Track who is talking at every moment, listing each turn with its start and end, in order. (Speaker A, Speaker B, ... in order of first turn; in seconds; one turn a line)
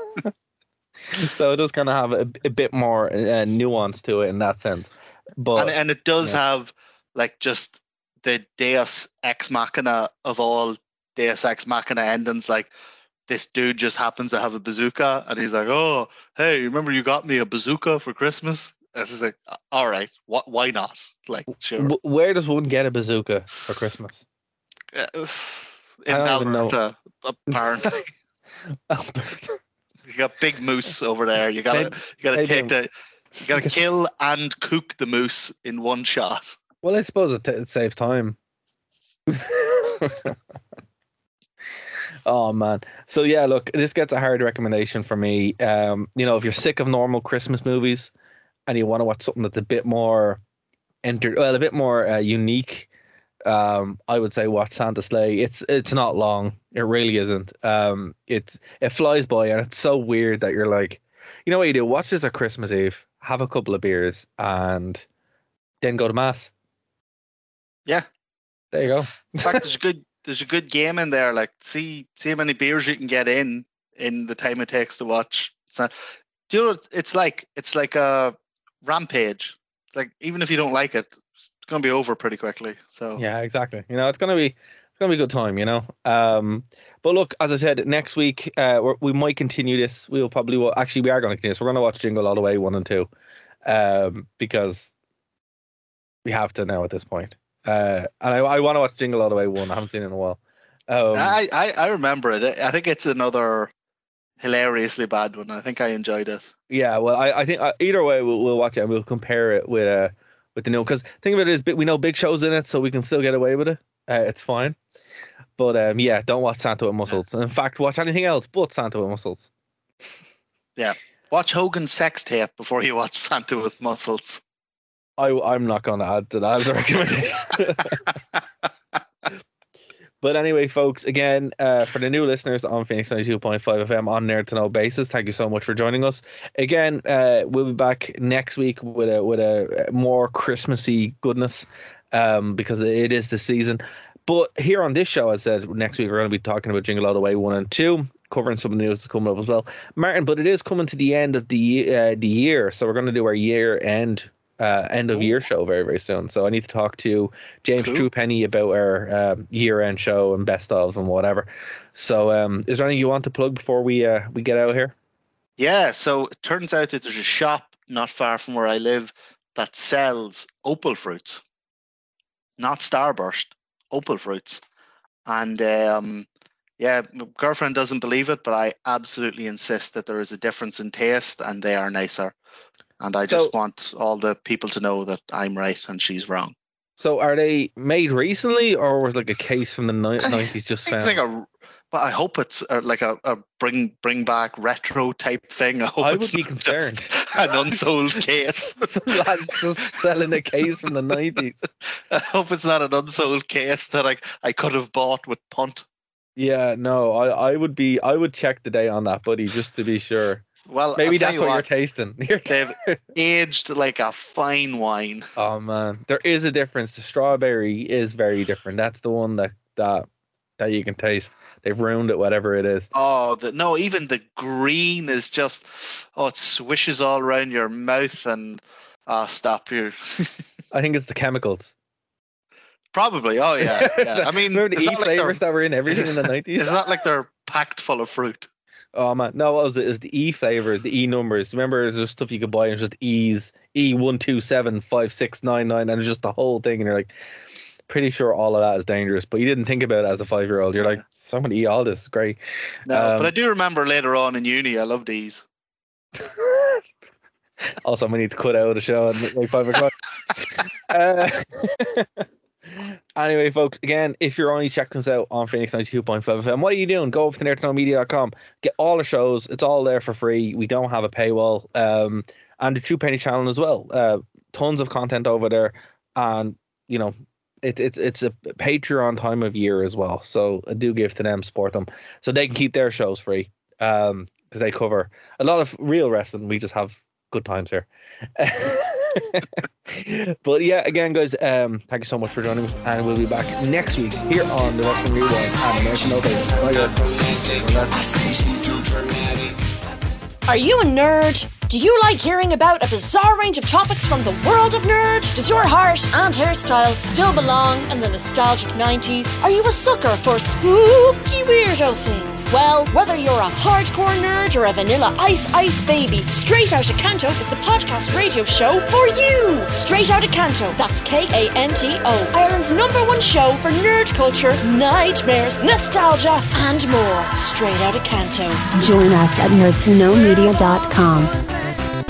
Speaker A: 1.1-6.4
Speaker B: 5.5-12.7
Speaker B: 13.3-21.9
Speaker A: 21.8-24.2
Speaker B: 24.9-28.1
Speaker A: 26.1-26.8
Speaker A: 28.9-29.6
Speaker B: 30.1-32.9
Speaker A: 31.7-32.7
Speaker B: 33.4-36.6
Speaker A: 36.8-38.4
Speaker A: 39.3-40.3
Speaker A: 42.2-48.1
Speaker A: 48.7-50.4
Speaker A: 51.0-52.9
Speaker A: 53.4-65.0
Speaker A: 65.8-66.5
Speaker A: 68.7-69.6
Speaker B: 69.4-75.9
Speaker B: 76.5-83.2
Speaker A: 83.2-93.1
Speaker A: 93.7-94.9
Speaker A: 96.2-101.4
Speaker B: 101.1-103.7
Speaker B: 104.4-106.5
Speaker A: 106.7-114.8
Speaker A: 115.6-119.5
Speaker B: 120.8-124.4
Speaker A: 125.2-128.0
Speaker A: 130.2-164.9
Speaker B: 155.1-155.4
Speaker B: 157.8-158.1
Speaker B: 165.6-171.4
Speaker B: 172.6-174.6
Speaker B: 175.2-176.3
Speaker B: 176.8-182.3
Speaker B: 183.0-186.5
Speaker A: 183.3-183.5
Speaker A: 187.0-191.2
Speaker B: 190.2-199.2
Speaker A: 196.0-197.1
Speaker A: 198.8-201.6
Speaker B: 202.1-205.8
Speaker A: 206.4-210.4
Speaker B: 210.7-211.7
Speaker A: 211.0-213.0
Speaker B: 212.5-215.3
Speaker A: 215.4-220.1
Speaker A: 220.6-222.9
Speaker B: 222.9-230.3
Speaker A: 230.7-231.7
Speaker B: 232.9-238.5
Speaker A: 233.6-236.8
Speaker A: 238.9-247.1
Speaker A: 247.9-252.4
Speaker B: 252.9-255.4
Speaker A: 252.9-253.3
Speaker A: 256.2-256.8
Speaker A: 257.8-262.2
Speaker A: 262.8-297.0
Speaker B: 297.5-298.6
Speaker C: 300.4-328.6
Speaker D: 328.7-331.3